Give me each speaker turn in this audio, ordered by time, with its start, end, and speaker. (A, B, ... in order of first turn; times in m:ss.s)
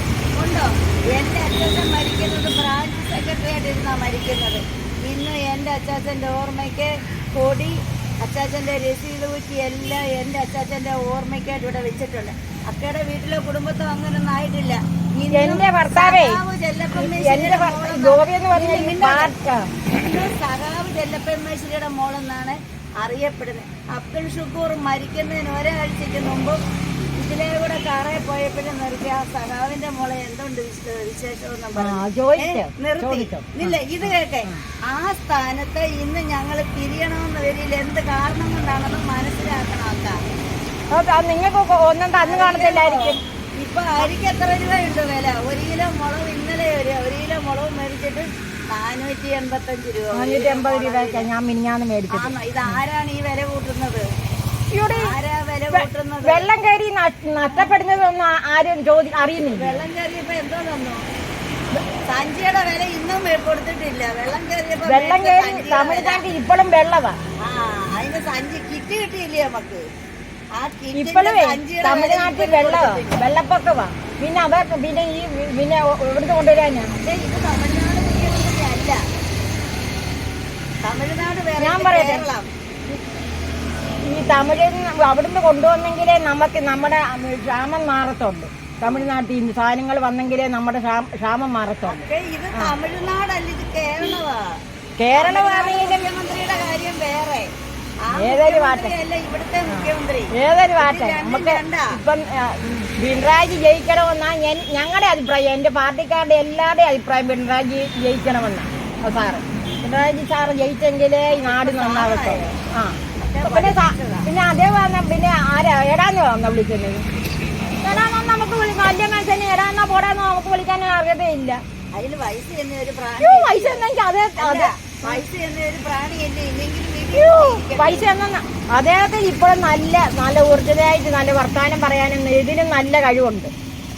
0:00.4-0:19.3 A
0:15.3-0:16.4 B
0:16.9-0:19.7 B
0:20.0-0:26.6 A
0:27.2-0:40.2 A
0:31.8-0:34.6 B
0:40.9-0:43.2 B
0:42.2-0:51.3 A
0:50.1-0:52.8 B
0:52.1-0:54.0 A
0:54.7-0:55.1 B
0:54.9-0:56.5 A
0:55.7-0:59.8 B
0:59.4-1:01.0 A
1:02.1-1:06.2 A
1:04.8-1:07.2 B
1:07.4-1:09.8 A
1:10.6-1:13.2 A
1:10.9-1:16.9 B
1:16.9-1:19.0 A
1:20.8-1:22.5 A
1:21.6-1:22.2 B
1:24.1-1:32.0 B
1:31.8-1:34.4 A
1:35.0-1:36.1 B
1:35.1-1:37.5 A
1:38.1-1:42.0 A
1:38.1-1:38.9 B
1:39.7-1:57.0 B
1:51.3-1:52.6 A
1:53.3-1:54.3 A
1:57.8-2:01.6 B
2:01.9-2:03.8 A
2:03.2-2:05.2 B
2:04.4-2:08.0 A
2:07.1-2:13.5 B